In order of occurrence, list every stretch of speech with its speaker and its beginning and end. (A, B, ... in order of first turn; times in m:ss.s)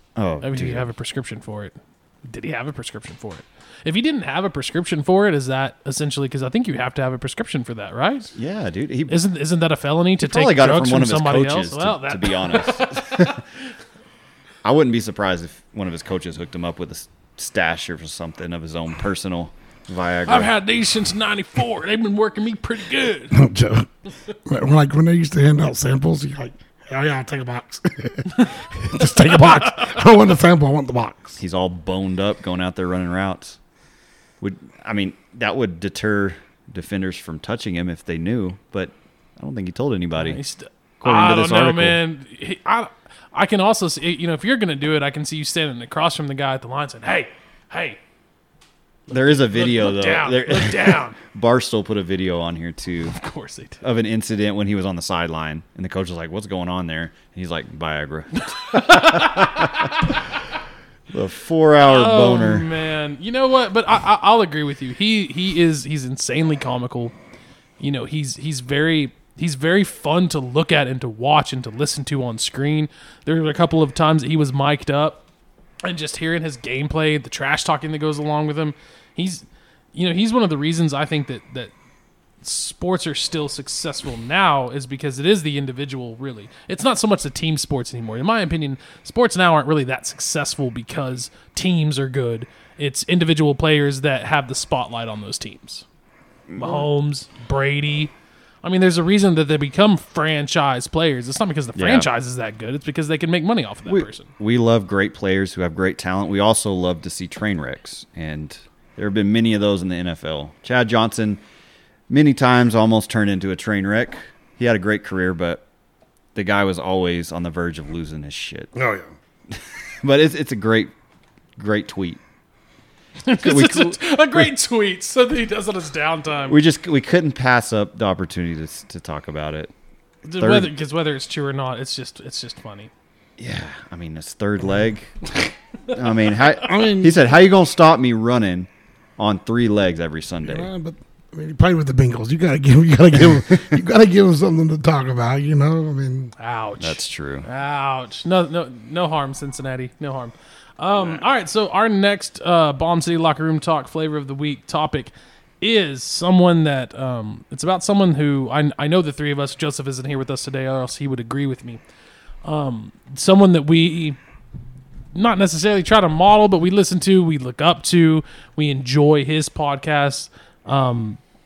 0:00.2-0:00.9 A
0:00.4-0:08.3 B
0:08.4-0:09.2 A
0:09.1-0:13.4 B
0:10.2-0:13.4 A
0:14.6-0:20.5 A
0:20.3-0:23.4 B
0:23.3-0:23.9 C
0:24.4-0:31.4 C
0:31.4-0:33.6 A
0:34.4-0:40.4 A
0:40.2-0:48.0 B
0:41.0-0:42.0 A
0:49.1-0:51.2 B
0:49.1-0:53.2 A
0:53.1-0:53.8 B
0:53.8-1:00.1 A
0:58.6-1:00.1 B
1:01.1-1:02.7 A
1:01.8-1:07.1 B
1:07.8-1:15.2 B
1:15.8-1:21.7 B
1:22.4-1:35.8 B
1:36.5-1:36.9 A
1:36.6-1:38.1 B
1:38.6-1:44.3 B
1:41.8-1:42.1 A
1:43.8-1:51.4 A
1:52.1-1:55.6 A
1:56.3-1:58.7 A
1:58.7-1:59.1 C
1:59.5-2:00.9 A
2:01.6-2:02.2 A
2:03.2-2:06.6 B
2:03.4-2:04.0 A
2:06.5-2:09.7 A
2:10.2-2:12.9 B
2:10.4-2:10.7 A
2:13.4-2:15.2 A
2:15.9-2:20.7 A
2:16.6-2:17.3 C
2:20.4-2:26.3 C
2:26.4-2:41.8 B
2:26.8-2:27.4 A
2:42.4-2:44.2 B
2:45.1-2:51.2 B